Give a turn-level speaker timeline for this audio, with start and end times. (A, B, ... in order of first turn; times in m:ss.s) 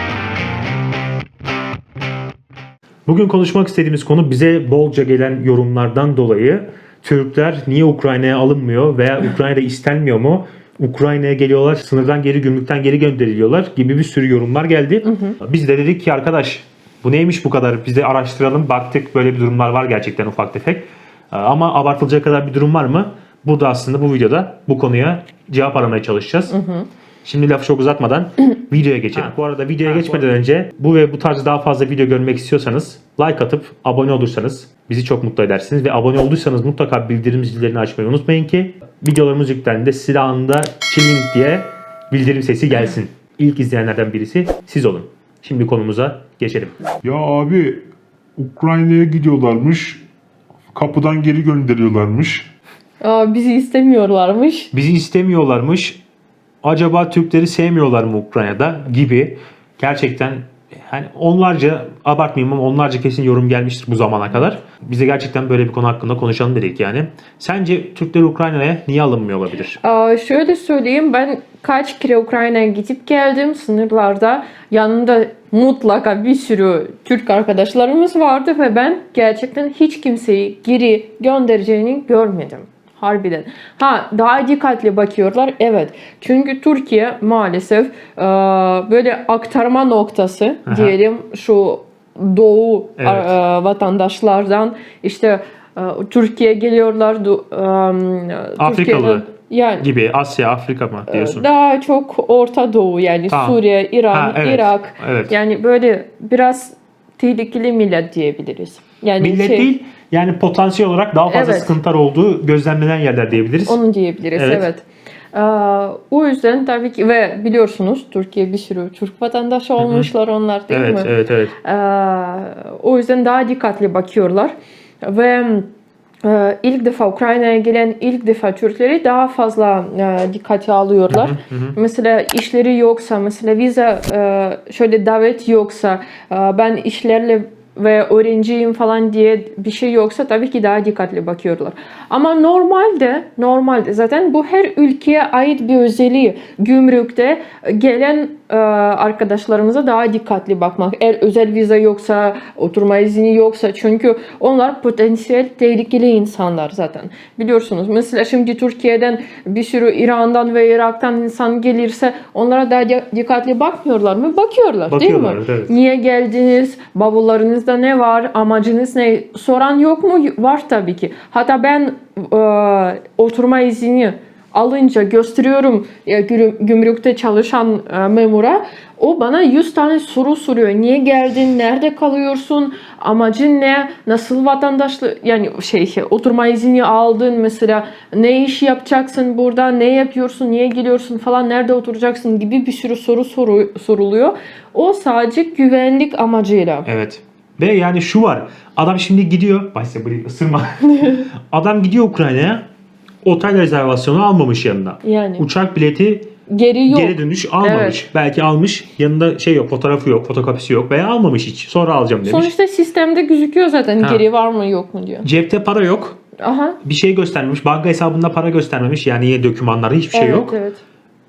0:03.0-0:26.6 A
0:15.0-0:15.4 B
0:26.5-0:26.9 B
0:27.2-0:46.8 A
0:47.0-0:47.8 C
0:48.4-0:50.0 C
0:50.7-0:52.5 C
0:53.0-0:54.7 B
0:54.7-0:56.0 A
0:56.6-1:09.8 A
1:09.8-1:39.9 B
1:30.7-1:30.9 A
1:33.0-1:33.3 A
1:38.6-1:39.3 A
1:39.8-1:41.5 A
1:41.1-1:49.7 B
1:43.3-1:43.6 A
1:44.1-1:45.4 A
1:49.2-1:53.8 A
1:51.3-1:51.7 B
1:53.6-2:05.7 B
1:54.3-1:54.7 A
1:59.8-2:00.1 A
2:00.7-2:01.5 A
2:06.2-3:16.9 B
2:11.1-2:11.8 A
2:44.9-2:45.7 A
3:16.8-3:22.6 A
3:23.2-3:26.3 A
3:25.0-3:25.4 B
3:26.5-3:28.0 B
3:26.9-3:32.5 A
3:32.2-3:35.3 B
3:35.2-3:36.2 A
3:36.4-3:36.8 B
3:36.8-3:40.6 A
3:40.1-3:40.8 B